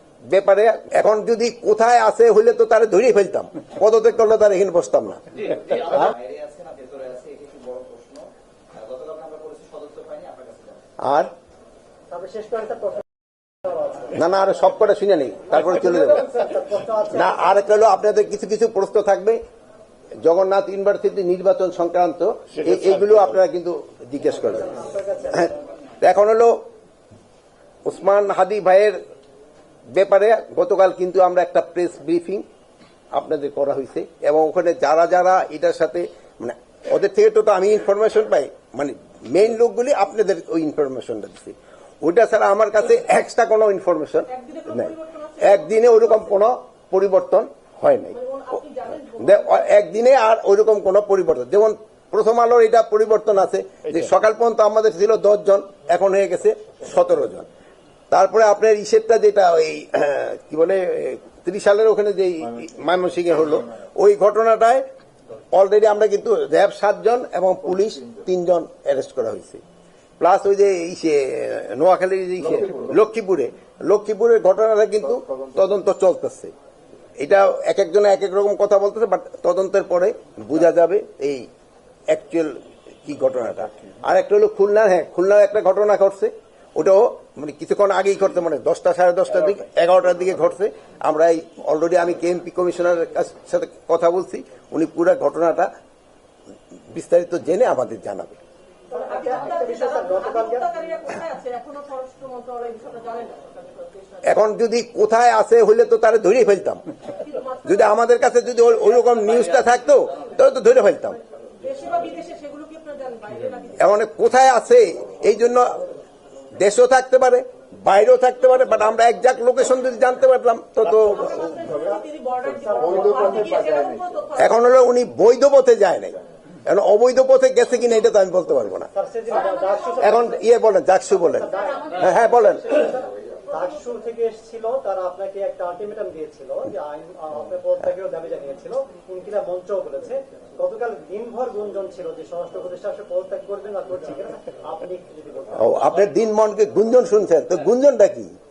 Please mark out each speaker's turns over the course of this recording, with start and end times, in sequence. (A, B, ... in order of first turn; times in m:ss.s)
0:00.3-0:06.1 A
0:06.2-0:08.3 B
0:08.8-0:10.8 B
0:11.0-0:11.3 A
0:12.1-0:13.0 C
0:13.6-0:14.1 C
0:14.1-0:16.4 A
0:15.9-0:17.7 C
0:17.1-0:19.4 A
0:20.2-0:26.6 A
0:24.5-0:25.5 C
0:27.8-0:29.0 A
0:29.9-0:32.4 A
0:33.2-0:57.5 A
0:44.3-0:46.0 D
0:48.2-0:49.3 D
0:58.1-1:04.8 A
1:05.5-1:09.6 A
1:10.2-1:16.5 A
1:17.2-1:21.4 A
1:22.1-1:35.7 A
1:36.9-1:38.4 A
1:38.9-1:40.7 C
1:38.9-1:44.2 D
1:44.2-1:46.8 A
1:47.3-1:47.6 D
1:47.6-1:51.2 A
1:51.6-1:53.8 D
1:53.7-1:55.8 A
1:56.6-2:01.6 A
2:01.1-2:04.3 D
2:01.7-2:02.0 C
2:02.5-2:03.0 C
2:04.3-2:08.9 A
2:08.9-2:10.4 C
2:10.0-2:12.8 A
2:11.3-2:25.7 C
2:25.5-2:28.3 A